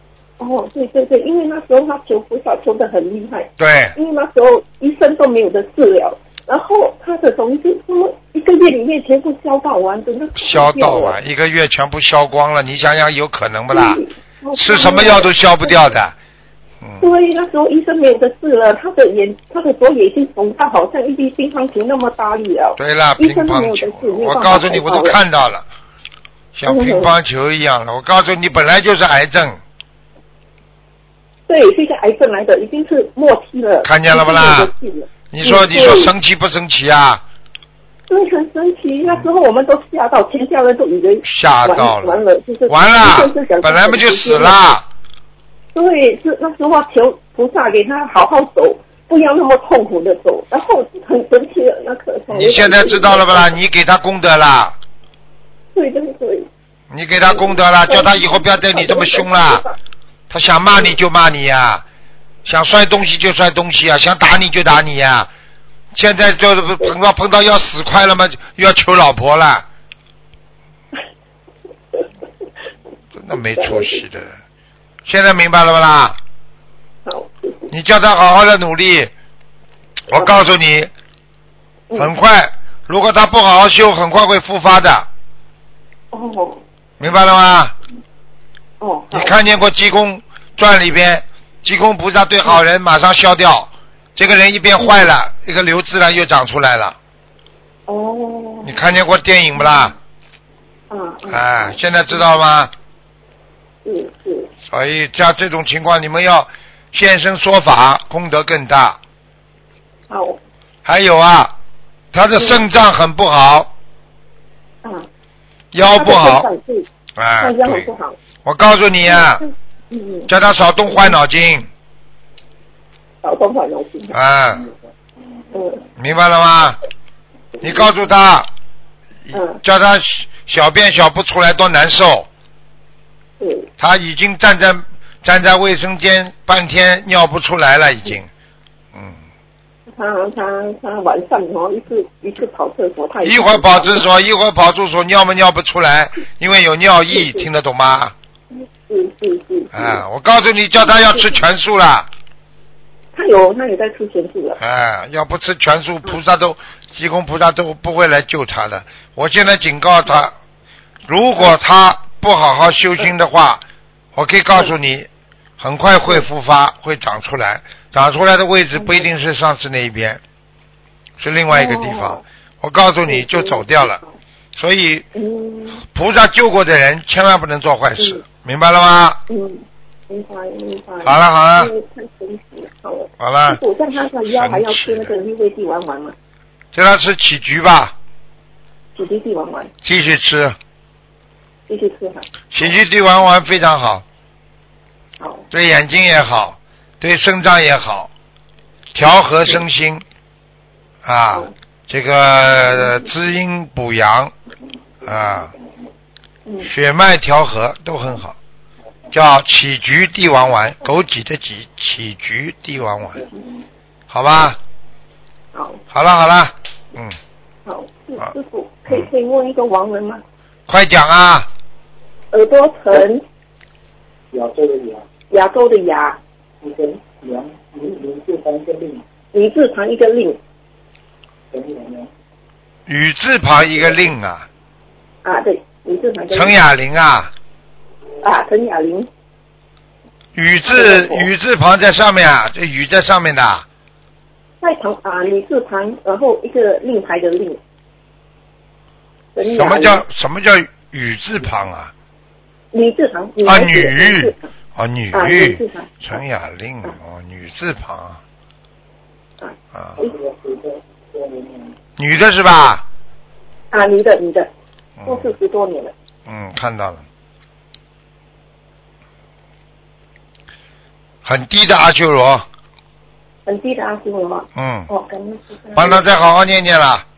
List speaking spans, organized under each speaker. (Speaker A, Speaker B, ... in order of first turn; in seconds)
Speaker A: 0.4-11.2, 13.7-15.7, 17.0-25.2, 26.6-27.1, 31.5-36.1, 38.1-44.5, 45.7-53.5, 55.7-56.5, 57.3-59.8, 73.5-74.0, 77.0-77.7, 80.1-80.4, 86.1-86.6, 88.8-89.3, 94.8-95.1, 97.9-98.8, 100.9-101.8, 103.8-104.5, 110.1-110.4, 112.3-112.6, 114.8-115.1, 115.9-116.9, 117.4-118.2, 119.1-120.3, 120.9-121.1, 123.2-124.2, 125.5-125.8, 129.3-129.6, 133.4-133.7, 139.9-144.0, 147.1-147.4, 148.5-150.0, 153.1-154.6, 168.7-169.1, 171.5-172.2, 173.1-174.1, 175.1-175.8, 179.3-186.1, 188.9-189.7, 191.7-192.3, 195.2-195.4, 206.4-206.7, 215.5-215.8, 217.6-220.2, 222.3-223.2, 225.3-226.2, 229.3-230.4, 235.2-236.6, 238.2-239.1, 240.7-241.3, 244.6-247.6, 249.3-250.0, 252.7-254.4, 255.1-256.2, 259.4-260.1, 263.7-264.5, 265.0-265.9, 273.4-276.0
Speaker B: 3.6-4.0, 10.4-14.0, 14.5-16.1, 16.8-17.1, 22.8-25.6, 26.5-29.6, 33.8-34.7, 35.3-37.2, 41.2-44.9, 52.3-54.8, 56.9-59.6, 60.3-61.8, 62.4-65.3, 65.9-69.6, 73.1-74.4, 75.0-76.2, 77.7-79.1, 80.1-80.9, 82.0-85.1, 87.0-87.7, 89.1-97.0, 98.6-99.9, 101.3-102.7, 104.7-109.0, 110.8-111.5, 112.1-113.7, 115.7-116.5, 117.2-117.9, 118.4-119.4, 120.3-121.7, 124.1-124.7, 126.0-126.8, 127.6-128.5, 129.3-132.3, 133.8-138.3, 138.9-139.2, 143.2-148.1, 149.7-152.1, 154.6-160.3, 161.1-163.6, 164.1-165.1, 165.6-170.2, 171.2-174.0, 174.6-175.1, 175.8-179.2, 181.0-181.7, 183.2-183.6, 184.3-185.1, 186.7-187.9, 189.8-190.6, 192.5-194.0, 195.5-198.1, 198.9-200.0, 201.0-204.3, 205.0-205.5, 206.6-208.3, 209.1-213.2, 214.1-214.6, 215.9-217.2, 220.7-221.5, 232.9-234.5, 236.3-237.3, 240.3-243.6, 249.4-251.9, 253.4-258.2, 259.7-260.0, 262.0-262.8, 265.0-265.3, 266.2-267.0, 271.2-272.4, 274.6-274.9, 275.7-277.0
Speaker C: 224.3-225.0, 226.6-229.0, 231.5-232.1, 260.0-261.7